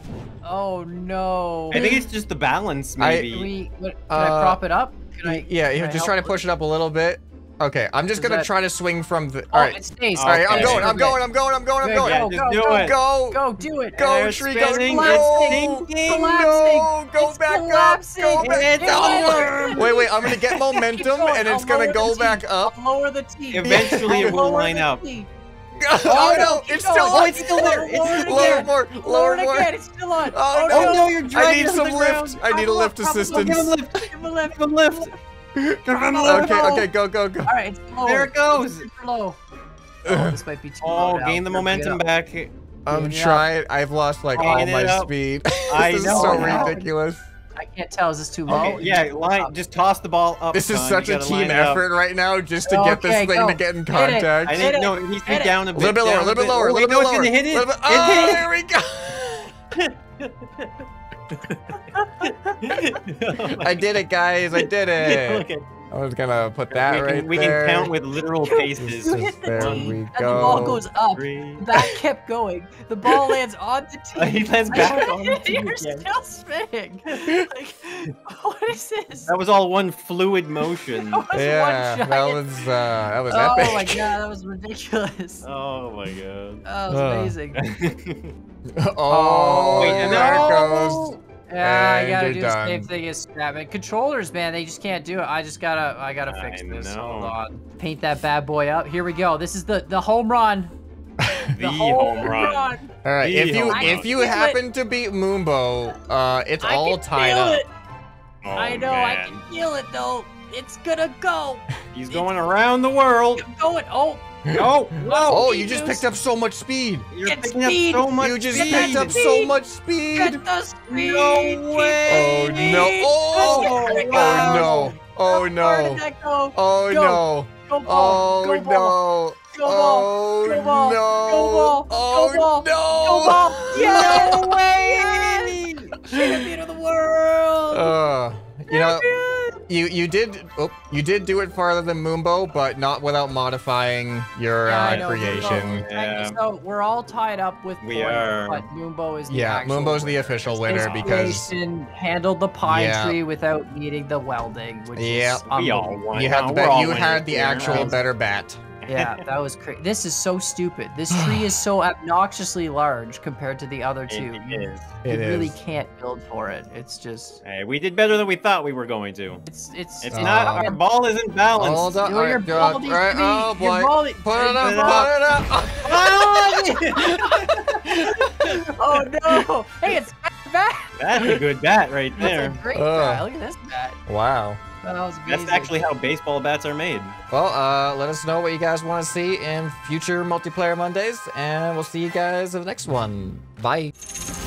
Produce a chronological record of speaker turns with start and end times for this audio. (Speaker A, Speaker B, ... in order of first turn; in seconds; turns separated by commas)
Speaker A: 0.4-1.9, Speaker B: 1.7-3.5, Speaker C: 1.7-2.0, Speaker C: 3.0-3.3, Speaker A: 3.2-6.4, Speaker C: 4.1-4.6, Speaker C: 5.2-13.4, Speaker A: 8.1-8.5, Speaker A: 9.5-11.2, Speaker B: 10.2-11.0, Speaker A: 11.8-14.1, Speaker B: 12.0-13.0, Speaker C: 13.9-22.7, Speaker B: 14.0-16.4, Speaker A: 14.9-20.1, Speaker B: 18.4-20.6, Speaker A: 20.8-25.3, Speaker B: 23.5-25.0, Speaker C: 23.6-24.4, Speaker C: 25.8-29.7, Speaker B: 26.0-28.7, Speaker A: 26.0-35.2, Speaker C: 30.3-33.8, Speaker B: 30.7-32.4, Speaker B: 33.3-35.1, Speaker C: 35.5-37.5, Speaker A: 35.9-36.9, Speaker B: 35.9-36.7, Speaker A: 37.5-39.4, Speaker B: 38.0-38.9, Speaker C: 40.0-40.4, Speaker A: 40.0-42.0, Speaker B: 40.8-42.5, Speaker C: 42.9-47.3, Speaker A: 42.9-43.4, Speaker B: 44.4-46.7, Speaker A: 44.4-44.6, Speaker A: 46.1-46.9, Speaker A: 47.6-49.5, Speaker C: 48.5-48.8, Speaker B: 48.5-51.8, Speaker C: 50.5-54.7, Speaker A: 52.6-55.6, Speaker B: 54.5-58.5, Speaker C: 55.7-59.5, Speaker B: 59.7-60.7, Speaker B: 61.3-63.9, Speaker A: 61.7-63.0, Speaker C: 63.6-67.9, Speaker B: 64.5-65.7, Speaker B: 66.7-71.9, Speaker A: 68.4-79.3, Speaker C: 68.8-70.8, Speaker B: 74.2-76.1, Speaker B: 79.3-81.2, Speaker A: 81.0-82.7, Speaker C: 81.3-84.2, Speaker A: 83.3-85.5, Speaker B: 85.4-86.7, Speaker A: 86.7-87.7, Speaker C: 86.9-87.4, Speaker B: 87.5-88.3, Speaker C: 88.7-92.9, Speaker A: 89.1-100.7, Speaker B: 89.7-91.1, Speaker B: 96.3-97.3, Speaker C: 101.2-101.5, Speaker B: 101.5-104.1, Speaker A: 101.6-102.9, Speaker C: 103.0-107.6, Speaker A: 103.7-104.6, Speaker A: 106.6-107.7, Speaker B: 108.4-109.4, Speaker A: 108.5-112.3, Speaker B: 111.9-113.5, Speaker A: 113.4-114.3, Speaker B: 114.5-115.5, Speaker A: 115.0-116.1, Speaker C: 115.3-117.1, Speaker B: 117.1-119.3, Speaker A: 117.2-119.5, Speaker C: 118.2-120.4, Speaker A: 120.1-129.0, Speaker B: 120.9-124.9, Speaker C: 122.1-126.0, Speaker C: 126.5-134.6, Speaker A: 129.5-138.0, Speaker B: 133.8-135.9, Speaker C: 136.1-136.5, Speaker C: 137.7-139.1, Speaker A: 138.7-139.6, Speaker C: 139.7-145.8, Speaker A: 144.7-156.1, Speaker B: 144.9-146.4, Speaker B: 147.8-148.7, Speaker C: 149.3-151.5, Speaker B: 150.7-151.2, Speaker C: 152.6-153.2, Speaker C: 154.9-155.5, Speaker B: 155.5-157.9, Speaker C: 156.1-158.6, Speaker A: 157.6-158.0, Speaker B: 158.8-159.2, Speaker A: 158.9-167.4, Speaker C: 161.1-161.6, Speaker B: 164.1-165.0, Speaker C: 165.0-165.6, Speaker B: 167.4-169.4, Speaker A: 169.5-170.8, Speaker B: 170.0-172.0, Speaker C: 170.1-170.7, Speaker C: 171.6-178.6, Speaker A: 172.0-175.1, Speaker B: 174.6-175.1, Speaker B: 175.8-177.8, Speaker A: 176.6-181.0, Speaker B: 181.0-182.6, Speaker C: 181.2-181.4, Speaker A: 182.2-184.0, Speaker C: 182.7-183.2, Speaker C: 184.1-184.6, Speaker A: 184.8-185.8, Speaker B: 185.3-187.2, Speaker C: 187.3-193.9